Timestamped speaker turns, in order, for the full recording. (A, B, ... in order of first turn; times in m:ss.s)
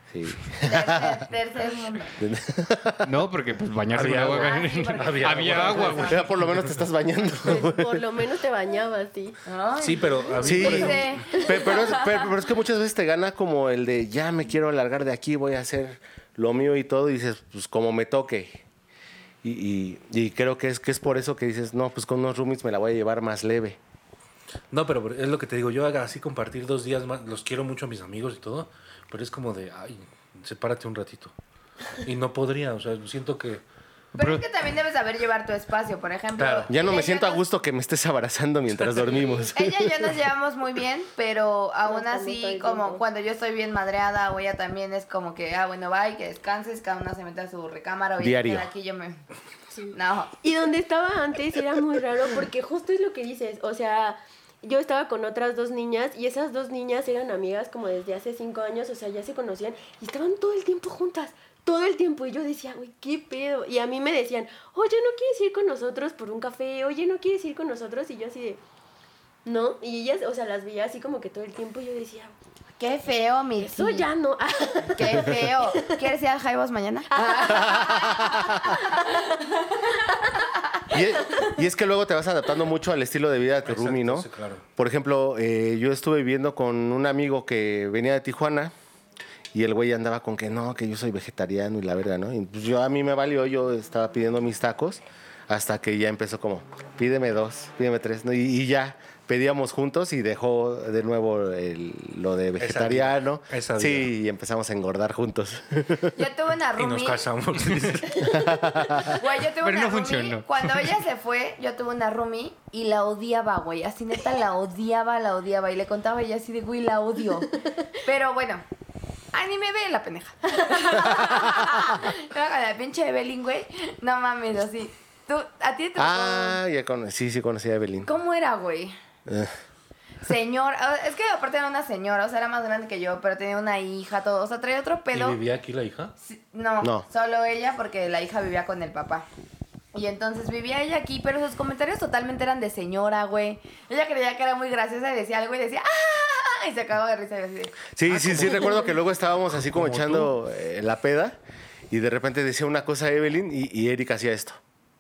0:00.1-0:01.2 A
0:00.6-0:02.2 B
0:02.2-0:03.1 A
0:03.0-0:06.2 C
0:03.9-0:06.8 D
0:04.4-0:06.2 B
0:06.0-0:08.1 A
0:07.4-0:09.4 E
0:09.5-0:12.2 B
0:09.8-0:11.2 D
0:10.4-0:18.6 A
0:11.3-0:11.8 E
0:19.4-0:23.8 A
0:24.7-0:31.4 D
0:32.0-0:33.6 D
0:34.2-0:37.4 B
0:34.2-0:34.4 C
0:36.4-0:36.7 D
0:36.7-0:39.9 A
0:38.8-0:39.3 D
0:39.5-0:49.2 B
0:41.9-0:43.0 E
0:48.2-0:48.7 A
0:49.7-1:08.6 E
0:49.9-0:50.4 B
1:09.4-1:12.3 E
1:12.8-1:14.1 B
1:13.6-1:16.0 E
1:14.9-1:18.6 B
1:17.1-1:21.4 E
1:17.7-1:18.5 A
1:20.9-1:28.7 A
1:23.6-1:24.6 D
1:29.5-1:46.2 A
1:42.6-1:44.1 D
1:46.2-1:47.2 B
1:46.8-1:48.6 D
1:48.3-1:49.1 A
1:49.1-1:58.6 B
1:49.6-1:50.9 C
1:59.3-2:06.6 B
2:06.0-2:08.1 A
2:08.1-2:09.0 B
2:09.3-2:09.5 A
2:10.2-2:15.4 B
2:15.1-2:16.1 D
2:16.2-2:19.3 B
2:19.9-2:27.8 B
2:28.0-2:31.4 A
2:28.1-2:29.0 D
2:29.5-2:30.4 D
2:31.9-2:34.6 A